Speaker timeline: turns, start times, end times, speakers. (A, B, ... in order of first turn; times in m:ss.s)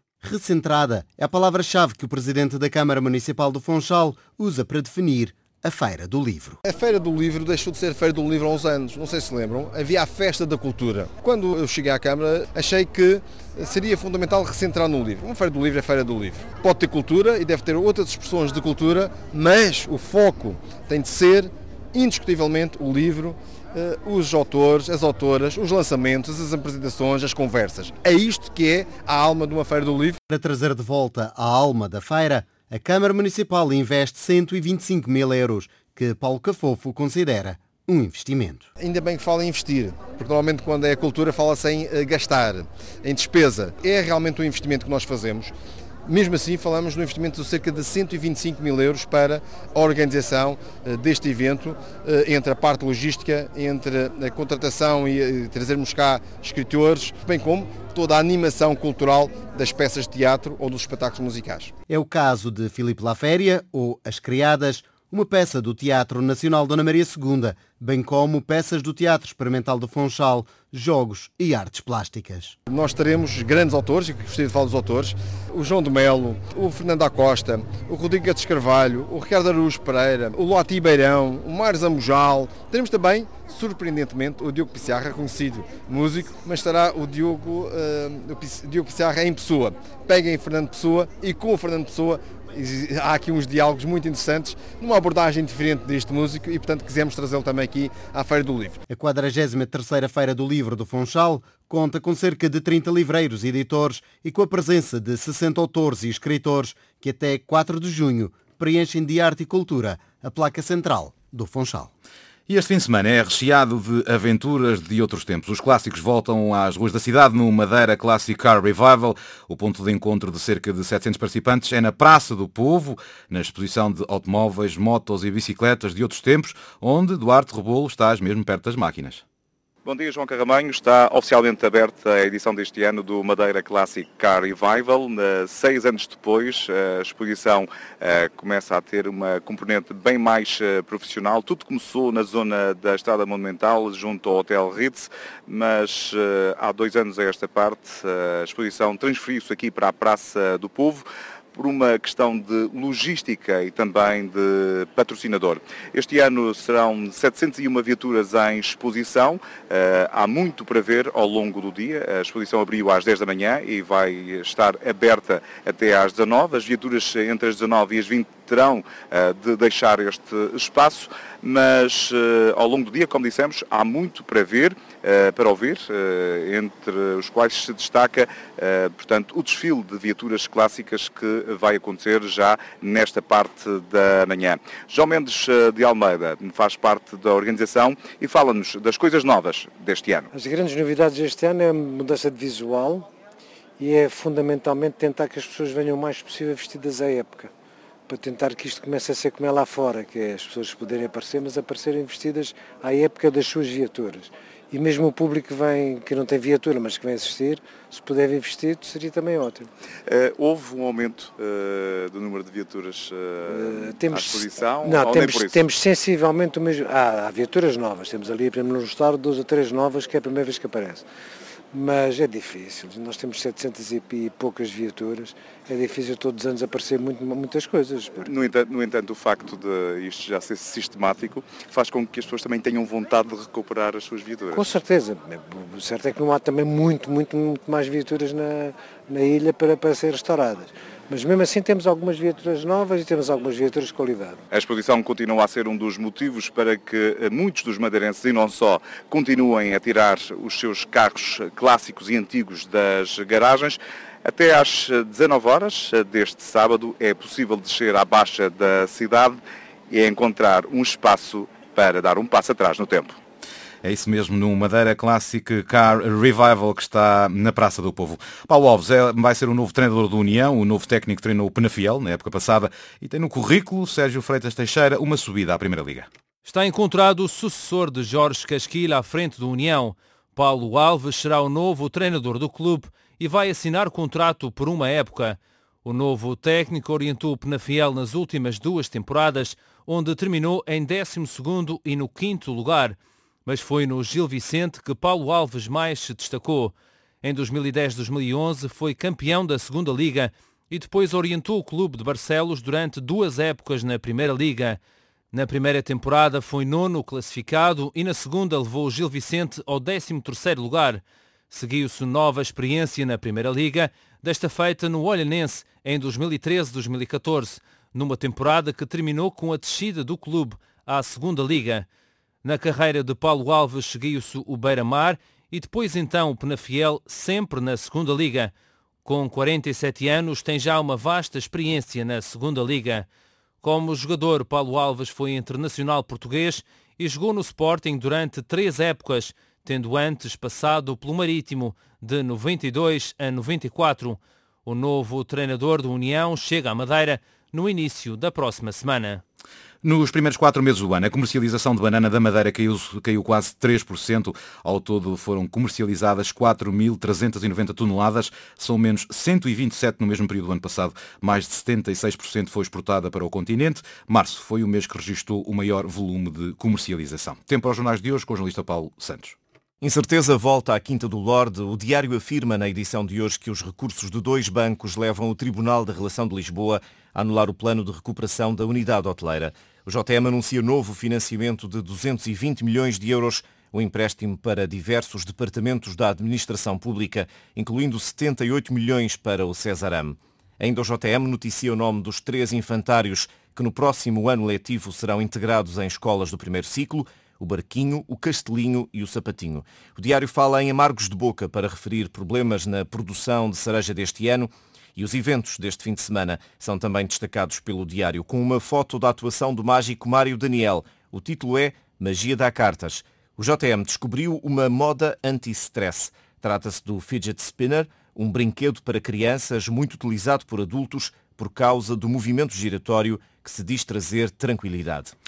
0:00.2-0:06.6 A
0:06.6-0:30.2 B
0:30.3-0:38.7 A
0:38.8-0:45.5 B
0:46.1-1:01.7 B
1:01.9-1:12.6 A
1:12.7-1:38.8 B
1:38.9-1:51.9 A
1:52.5-2:09.2 C
2:09.8-3:10.3 D
3:10.3-3:13.1 E
3:13.8-3:17.5 E
3:18.1-3:29.7 E
3:30.1-3:35.7 D
3:33.5-3:41.0 E
3:41.7-3:48.3 E
3:48.2-3:54.8 D
3:54.5-4:04.4 E
4:04.5-4:23.2 D
4:23.8-4:36.1 C
4:36.4-5:04.8 F
5:05.3-5:21.9 F
5:22.4-5:28.5 F
5:29.0-5:33.1 F
5:33.6-5:49.2 F
5:49.8-6:09.4 C
6:09.8-7:05.1 G